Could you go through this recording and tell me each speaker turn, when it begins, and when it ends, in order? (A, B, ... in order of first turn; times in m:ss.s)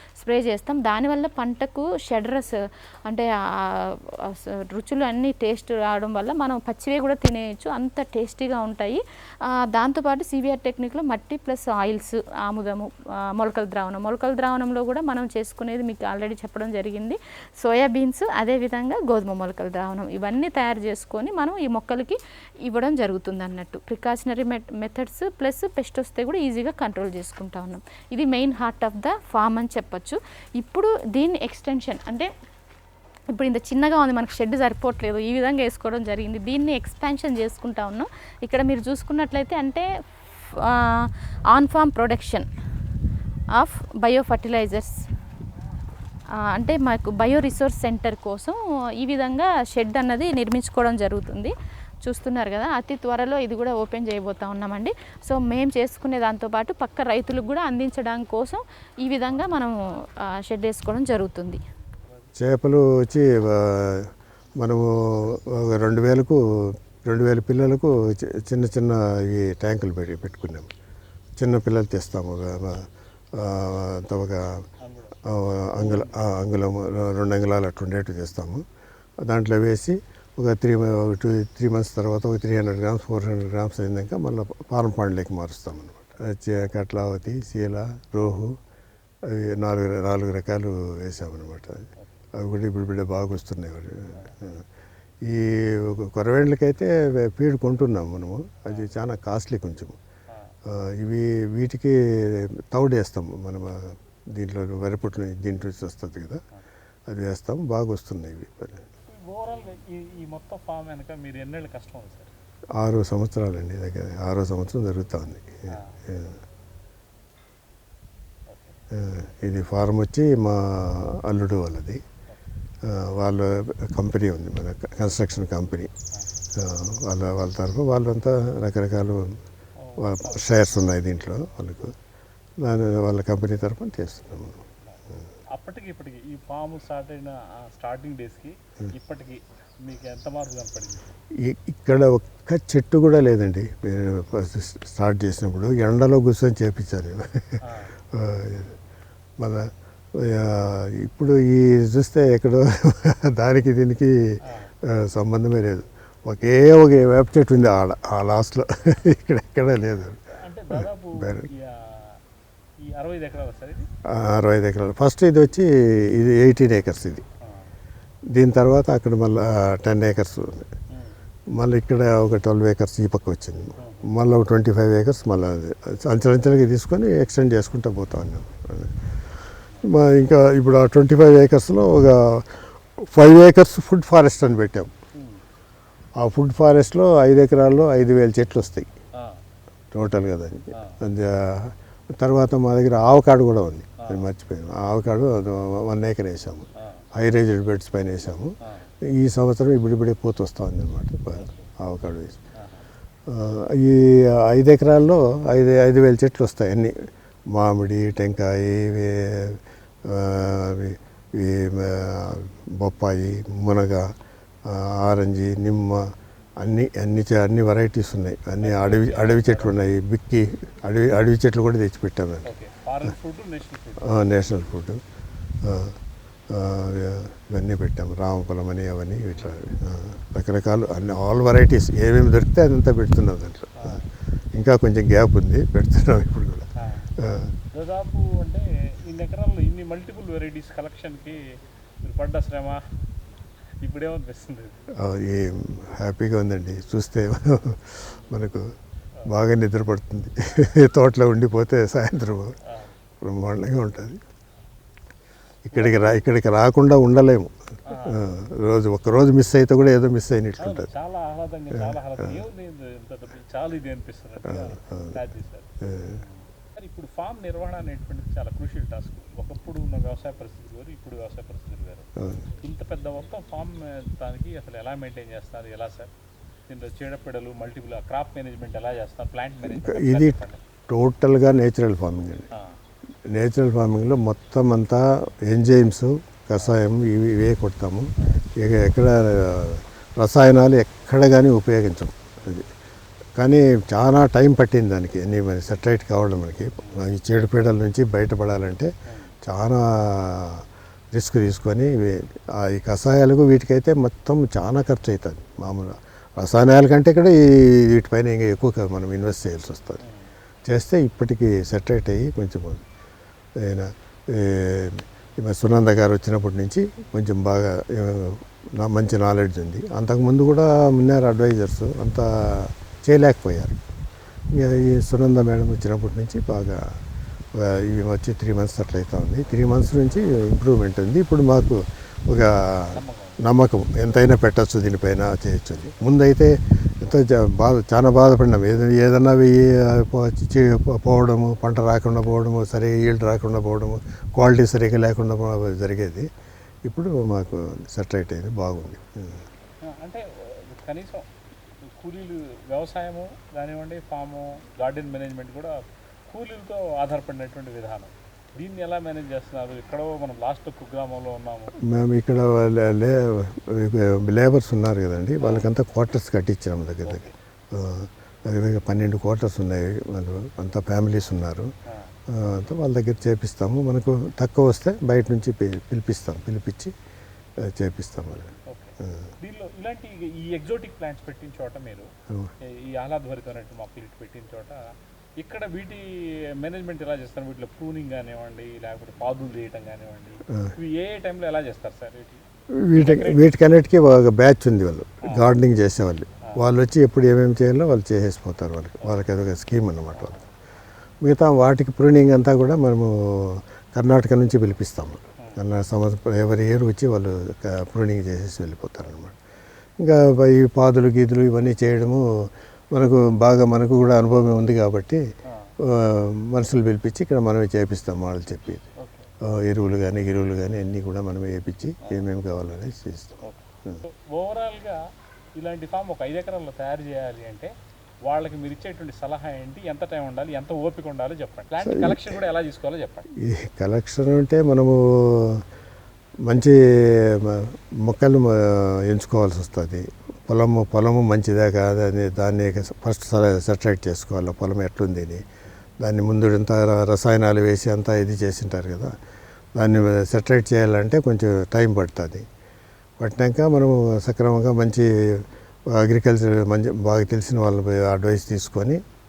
0:00.2-0:32.3 A
0:33.3-0:42.5 A
0:43.5-0:45.0 A
0:46.4-1:01.6 A
1:02.4-1:10.7 B
1:11.4-1:14.6 B
1:14.8-1:15.2 C
1:15.2-1:18.6 B
1:15.8-1:16.2 C
1:19.2-1:28.6 B
1:29.2-1:34.6 B
1:35.2-1:40.0 B
1:40.6-1:46.4 B
1:47.1-1:48.8 B
1:49.1-1:52.3 C
1:52.8-1:56.4 B
1:55.7-1:56.0 C
1:58.5-1:58.8 C
1:58.9-2:02.0 B
2:02.8-2:05.9 B
2:06.5-2:09.4 B
2:09.8-2:10.6 C
2:10.0-2:11.9 B
2:12.6-2:14.6 B
2:15.5-2:21.0 C
2:21.3-2:28.8 B
2:27.6-2:27.9 C
2:29.4-2:41.5 B
2:34.4-2:34.7 C
2:40.4-2:42.2 C
2:42.8-2:43.9 C
2:44.1-2:47.2 B
2:47.4-2:47.7 C
2:48.3-2:50.7 B
2:51.6-2:59.0 B
2:53.8-2:54.1 C
2:59.8-3:04.9 B
3:05.2-3:05.4 C
3:06.2-3:08.9 B
3:09.2-3:09.4 C
3:09.9-3:18.5 B
3:14.0-3:14.3 C
3:16.8-3:17.0 C
3:18.6-3:18.9 C
3:19.1-3:22.4 B
3:21.3-3:21.6 C
3:22.6-3:22.8 C
3:23.3-3:34.1 B
3:34.6-3:42.5 B
3:38.6-3:39.8 C
3:42.4-3:44.2 C
3:44.0-3:45.0 B
3:45.6-3:46.0 B
3:46.5-3:54.0 B
3:54.5-3:57.5 B
3:56.8-3:57.1 C
3:57.7-4:01.4 C
4:02.0-4:02.8 C
4:03.8-4:04.8 C
4:04.9-4:08.7 B
4:09.2-4:12.6 B
4:12.7-4:12.9 C
4:13.2-4:14.2 B
4:15.7-4:20.9 B
4:15.7-4:16.2 C
4:17.9-4:18.3 C
4:20.6-4:32.1 C
4:21.7-4:22.4 B
4:24.5-4:25.2 B
4:25.8-4:26.2 B
4:32.2-4:32.5 B
4:32.6-4:36.1 C
4:36.7-4:40.6 C
4:39.6-4:42.5 B
4:43.3-4:52.7 B
4:53.4-4:58.9 B
4:56.8-4:57.0 C
4:59.1-4:59.3 C
4:59.4-5:10.0 B
5:10.0-5:10.3 C
5:10.7-5:12.8 B
5:13.6-5:23.8 B
5:24.5-5:26.9 B
5:27.5-5:46.3 B
5:32.9-5:33.4 C
5:46.8-5:49.4 B
5:49.8-5:51.3 C
5:51.8-5:55.8 C
5:56.3-6:01.8 C
6:01.8-6:11.7 B
6:05.4-6:05.7 C
6:07.0-6:07.3 C
6:12.3-6:16.9 B
6:17.6-6:18.5 B
6:18.7-6:22.1 C
6:19.0-6:19.3 B
6:22.6-6:24.8 C
6:25.4-6:32.4 C
6:32.7-6:40.4 B
6:32.9-6:33.5 C
6:35.2-6:35.5 C
6:40.1-6:40.5 C
6:41.2-6:49.4 B
6:50.0-6:55.2 B
6:55.5-6:55.7 C
6:55.8-6:58.8 B
6:59.0-6:59.3 C
6:59.4-7:04.0 B
7:03.4-7:05.0 C
7:05.6-7:07.7 C
7:08.3-7:13.3 C
7:11.8-7:12.4 B
7:13.4-7:15.6 B
7:16.4-7:25.4 B
7:26.0-7:29.1 B
7:29.8-7:32.4 B
7:33.2-7:39.0 B